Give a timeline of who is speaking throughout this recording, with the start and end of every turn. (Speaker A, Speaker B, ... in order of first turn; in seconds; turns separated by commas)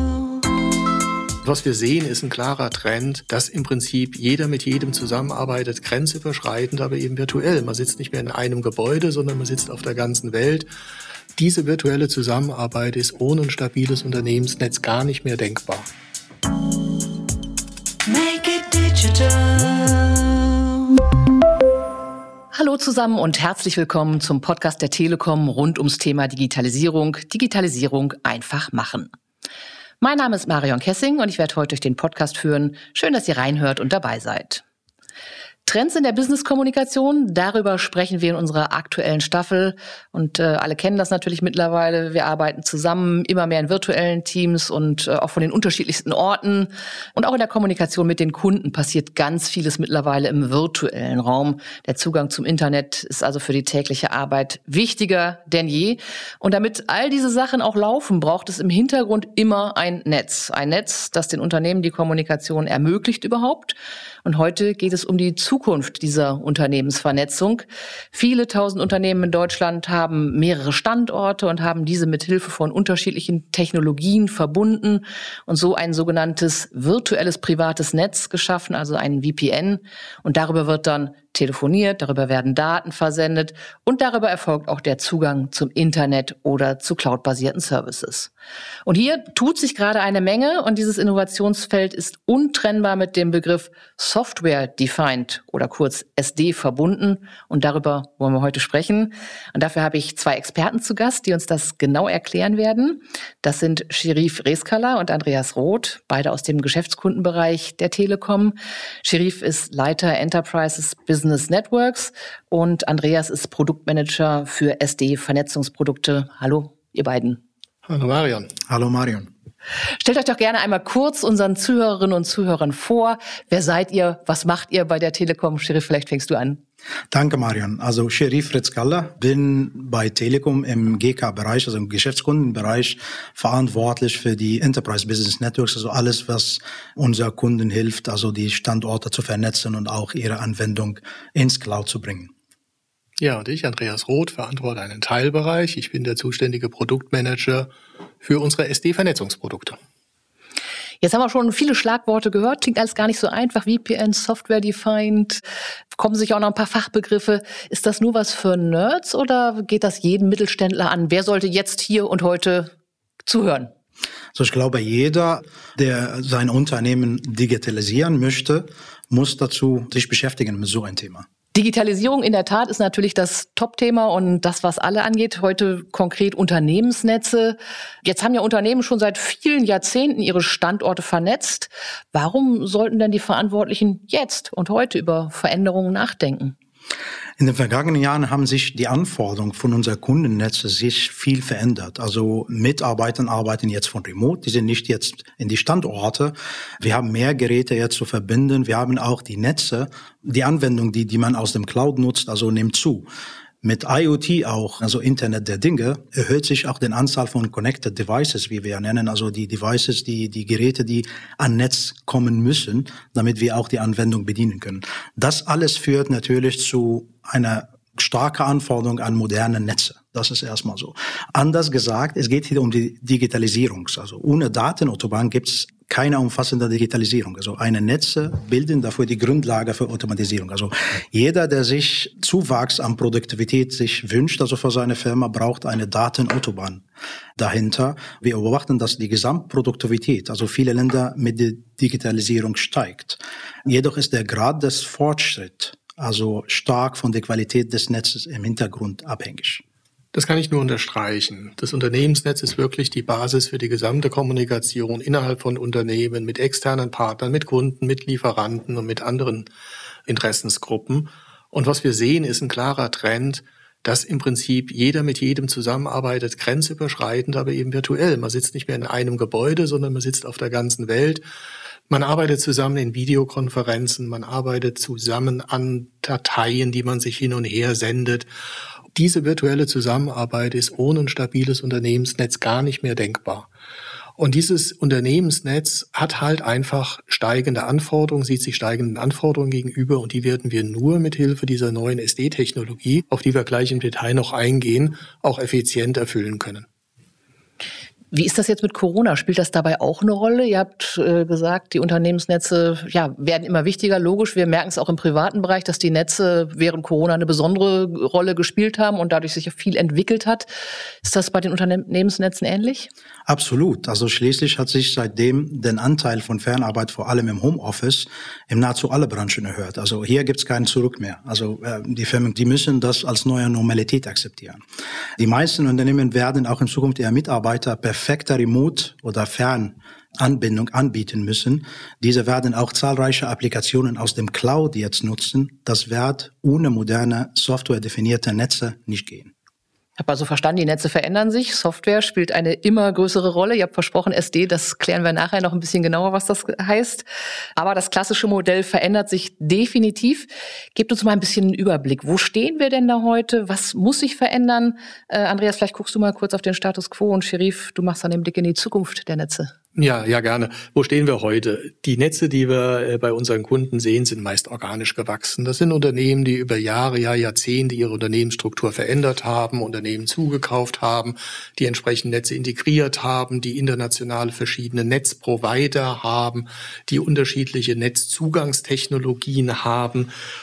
Speaker A: 1.4-10.7, Speaker A: 11.4-15.9, Speaker B: 18.5-19.4, Speaker B: 22.5-29.1, Speaker B: 30.0-34.6, Speaker B: 35.7-88.3, Speaker B: 88.8-117.4, Speaker A: 117.9-118.5, Speaker C: 118.7-119.3, Speaker B: 120.0-126.6, Speaker C: 127.1-142.3, Speaker A: 143.2-147.7, Speaker A: 148.2-149.8, Speaker B: 151.0-162.7, Speaker B: 163.2-163.7, Speaker C: 164.3-171.3, Speaker B: 171.5-186.6, Speaker C: 187.4-203.1, Speaker C: 203.6-236.8, Speaker C: 237.4-249.6, Speaker A: 250.1-259.5, Speaker A: 260.1-271.2, Speaker A: 271.9-278.3, Speaker A: 278.9-283.5, Speaker A: 284.2-296.7, Speaker B: 298.1-310.5, Speaker B: 311.0-312.9, Speaker C: 313.3-324.6, Speaker C: 325.2-339.3, Speaker B: 340.0-359.5, Speaker A: 359.8-380.1